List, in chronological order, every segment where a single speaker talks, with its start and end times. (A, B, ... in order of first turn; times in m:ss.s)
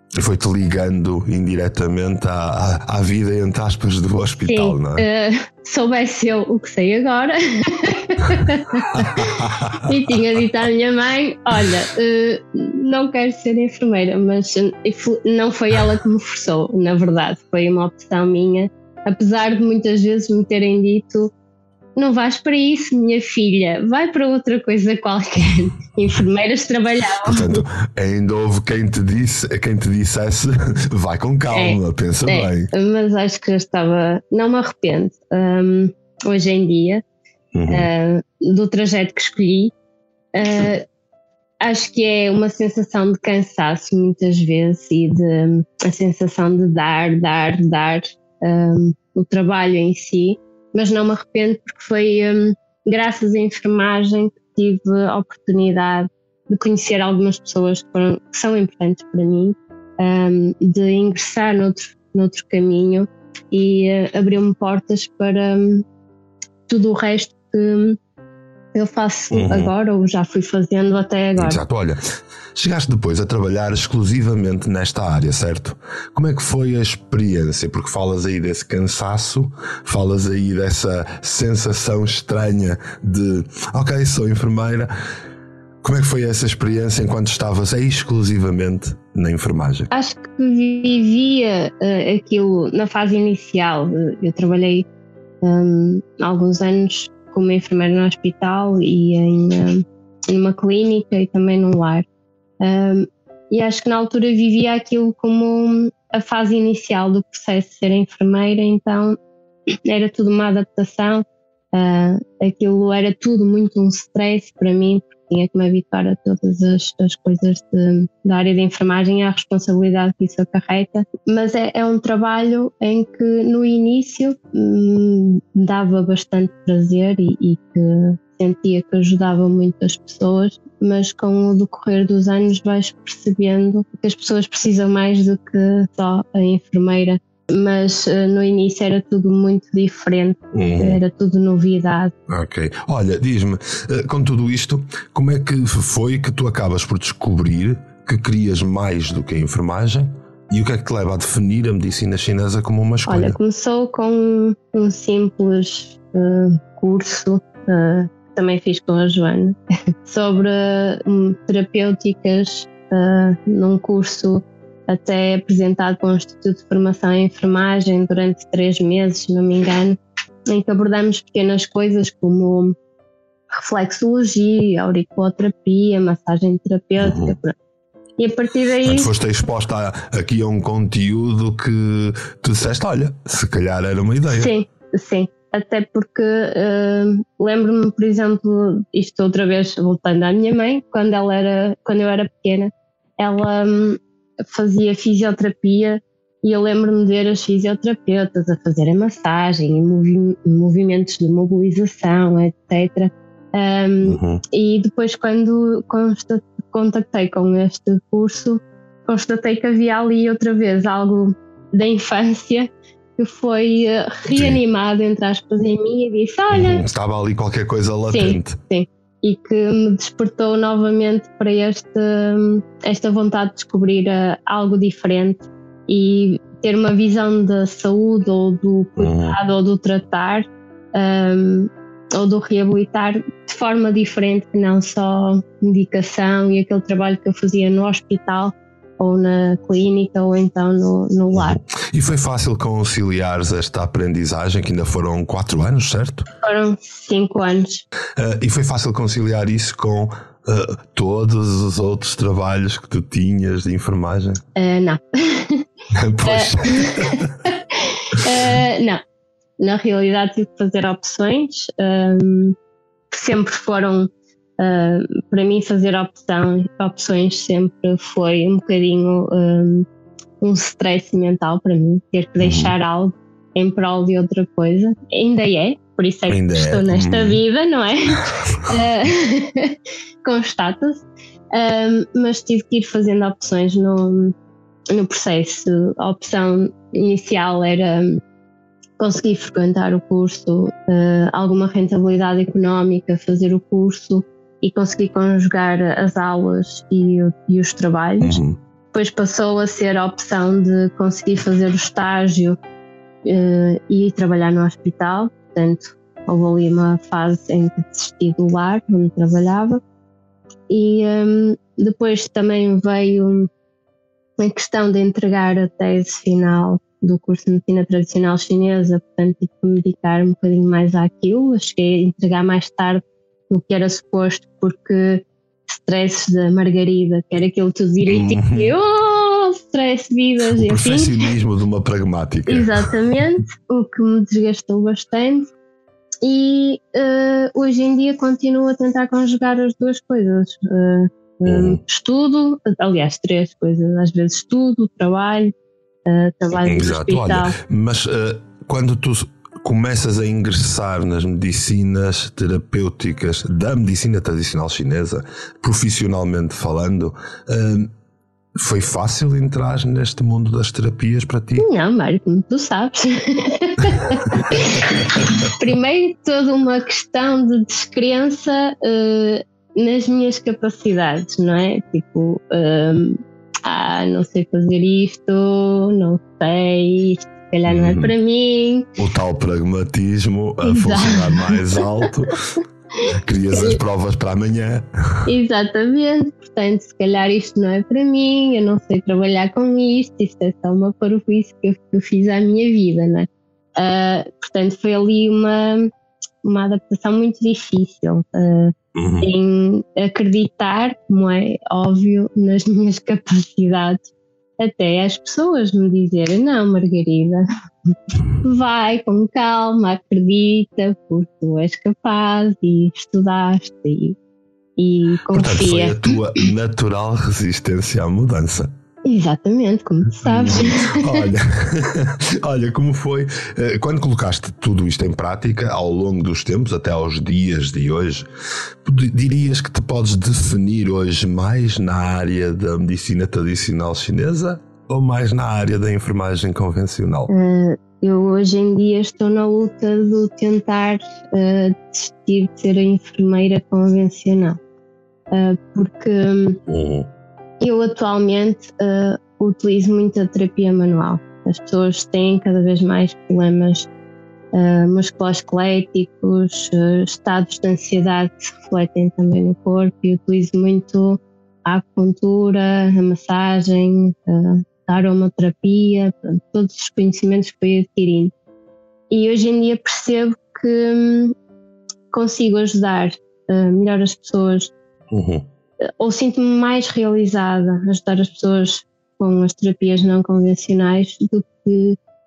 0:00.2-0:05.0 A
0:04.5-0:09.3 B
0:08.9-0:09.8 A
0:09.8-0:21.3 B
0:22.0-0:27.6 B
0:27.2-0:32.7 A
0:31.5-0:37.0 B
0:37.5-0:37.9 A
0:37.7-0:39.7 B
0:40.3-0:40.8 B
0:41.6-1:05.8 B
1:06.7-1:08.0 B
1:08.7-1:11.6 B
1:09.3-1:09.7 A
1:11.4-1:12.0 A
1:12.5-1:24.9 A
1:25.8-1:29.9 A
1:29.9-1:34.8 B
1:35.4-1:42.0 B
1:42.6-1:49.2 B
1:49.8-2:22.1 B
2:20.5-2:21.0 A
2:22.3-2:33.4 A
2:33.0-2:52.7 B
2:53.5-2:57.5 B
2:57.0-2:57.4 A
2:58.2-2:59.1 B
2:58.8-3:04.5 A
3:04.3-3:36.8 B
3:24.0-3:24.4 A
3:34.3-3:34.6 A
3:36.5-3:38.6 A
3:38.1-4:01.6 B
3:49.0-3:49.4 A
4:01.3-4:06.3 A
4:06.4-4:07.8 B
4:08.2-4:14.4 A
4:14.6-4:15.6 B
4:15.9-4:17.4 A
4:16.3-4:19.0 B
4:19.6-4:22.6 B
4:23.1-4:29.8 B
4:30.4-4:44.3 B
4:32.4-4:32.7 A
4:36.3-4:37.4 A
4:44.9-4:48.2 B
4:49.0-4:58.4 B
4:58.2-4:58.6 A
4:58.9-5:02.6 B
5:03.2-5:09.8 B
5:10.7-5:13.5 B
5:14.4-5:31.1 B
5:28.1-5:28.7 A
5:30.5-5:32.7 A
5:32.5-5:35.5 B
5:36.2-5:45.5 B
5:41.4-5:41.8 A
5:46.0-5:47.6 B
5:46.6-5:57.9 A
5:58.6-6:01.7 A
6:01.6-6:18.9 B
6:17.7-6:18.1 A
6:19.0-6:22.4 A
6:20.6-6:21.8 B
6:23.1-6:24.8 A
6:23.5-6:23.8 B
6:25.2-6:35.9 B
6:36.4-6:44.0 B
6:38.9-6:39.3 A
6:44.6-6:47.4 B
6:48.4-6:54.2 B
6:54.8-6:56.1 B
6:55.3-6:58.7 A
6:59.0-7:01.3 B
7:00.2-7:08.3 A
7:08.8-7:17.3 A
7:17.3-7:24.6 B
7:25.3-7:26.6 B
7:26.7-7:27.1 A
7:27.6-7:33.9 B
7:34.5-7:48.3 B
7:49.1-7:51.3 B
7:52.1-7:54.7 B
7:55.1-7:55.4 A
7:55.8-8:02.0 B